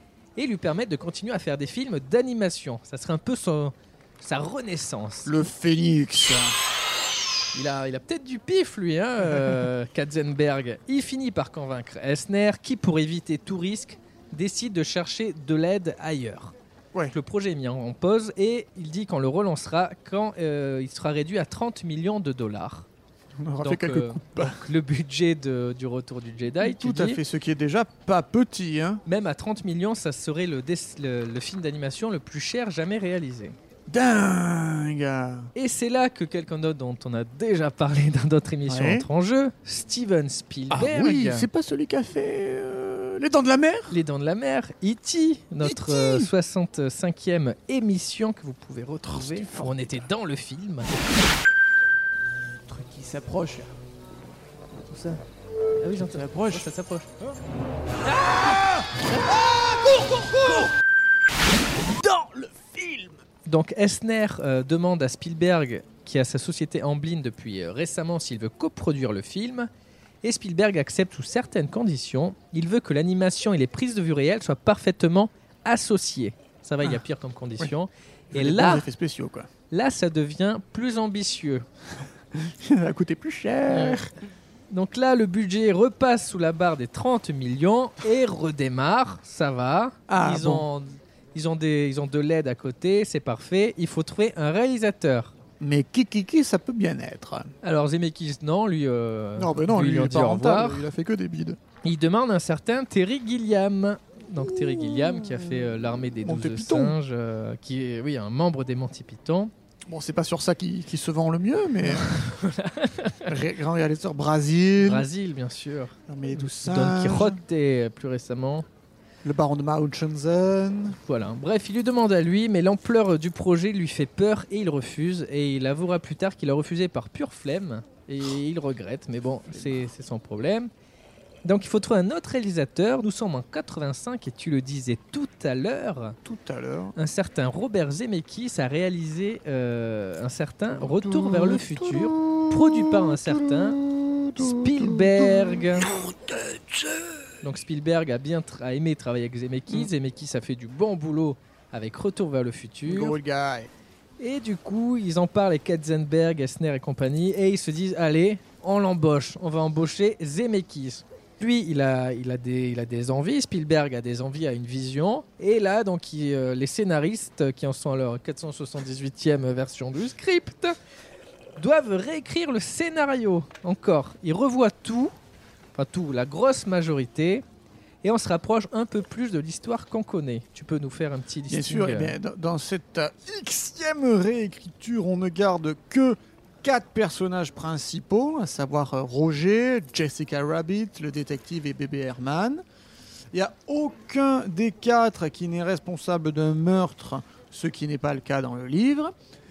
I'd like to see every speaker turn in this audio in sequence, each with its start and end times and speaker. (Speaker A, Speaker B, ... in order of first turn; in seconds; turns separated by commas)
Speaker A: 0.3-5.3, Speaker B: 5.2-6.6, Speaker A: 7.5-16.5, Speaker B: 9.3-9.6, Speaker A: 17.1-22.9, Speaker B: 23.4-24.6, Speaker A: 23.6-27.2, Speaker B: 26.6-29.0, Speaker A: 29.1-33.5, Speaker B: 33.9-35.5, Speaker A: 35.5-41.5, Speaker B: 38.7-39.1, Speaker B: 40.7-44.0, Speaker A: 43.9-51.0, Speaker B: 45.6-46.3, Speaker B: 49.0-50.0, Speaker B: 52.7-53.7, Speaker A: 55.8-57.2, Speaker B: 55.9-56.7, Speaker B: 58.0-60.7, Speaker B: 61.8-63.2, Speaker A: 63.5-69.7, Speaker A: 70.2-78.9, Speaker B: 78.3-79.5, Speaker A: 79.7-81.6, Speaker B: 82.3-84.1, Speaker A: 83.7-84.1, Speaker A: 84.7-95.3, Speaker B: 90.1-90.7, Speaker B: 95.6-97.5, Speaker A: 97.6-100.9, Speaker B: 99.4-101.6, Speaker A: 101.8-109.5, Speaker B: 104.4-107.0, Speaker B: 109.9-112.2, Speaker A: 111.9-113.3, Speaker B: 113.3-115.1, Speaker A: 114.8-118.7, Speaker B: 116.1-117.4, Speaker B: 119.2-121.0, Speaker A: 121.0-130.7, Speaker B: 129.5-129.8, Speaker A: 131.4-136.2, Speaker B: 136.2-136.9, Speaker A: 136.9-143.8, Speaker B: 140.7-147.1, Speaker A: 144.4-145.9, Speaker A: 147.4-153.2, Speaker B: 152.8-153.7, Speaker A: 154.2-170.8, Speaker A: 171.6-175.1, Speaker A: 175.7-177.4, Speaker A: 178.0-182.1, Speaker B: 181.5-192.6, Speaker B: 193.3-199.1